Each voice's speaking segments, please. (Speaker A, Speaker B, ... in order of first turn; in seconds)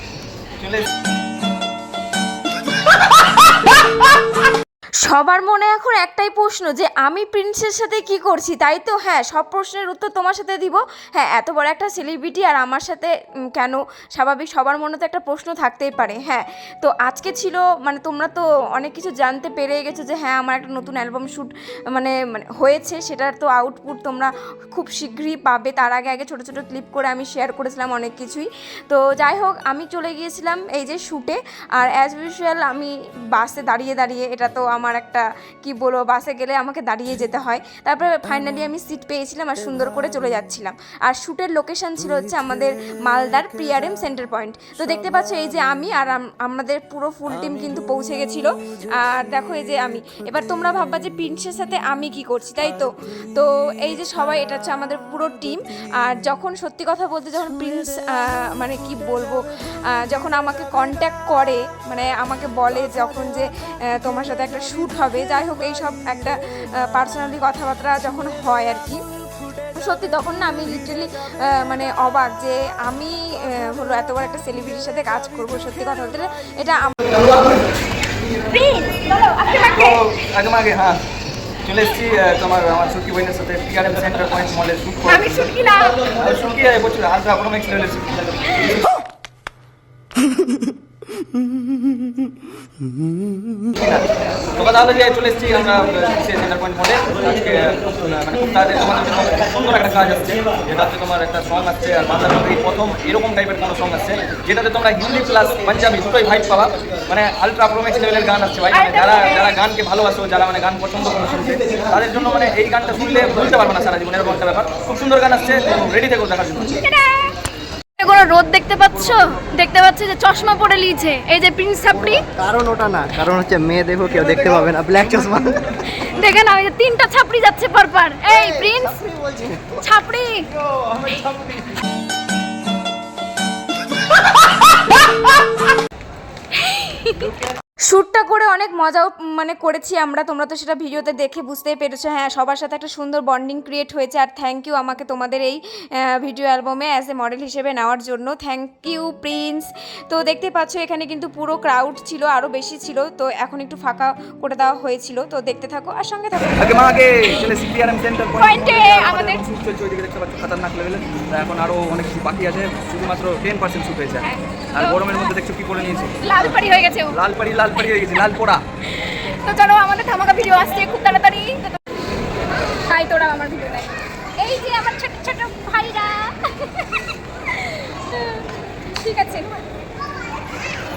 Speaker A: 0.6-0.8, 79.7-81.0, 81.6-88.2, 93.7-94.0, 94.5-116.8, 156.6-168.6
Speaker B: 5.0-59.4, 59.9-69.0, 69.7-77.1, 137.8-156.9, 166.3-167.0, 172.9-173.9, 179.0-179.5
Speaker C: 78.5-80.0, 85.1-86.0, 108.7-109.5, 116.8-117.3, 118.0-122.2, 125.9-129.0, 129.8-130.4, 136.6-137.3, 158.4-159.4, 166.3-167.0, 169.3-171.5, 174.4-176.8, 177.9-178.4
Speaker D: 121.9-125.8, 128.3-129.8, 130.7-131.6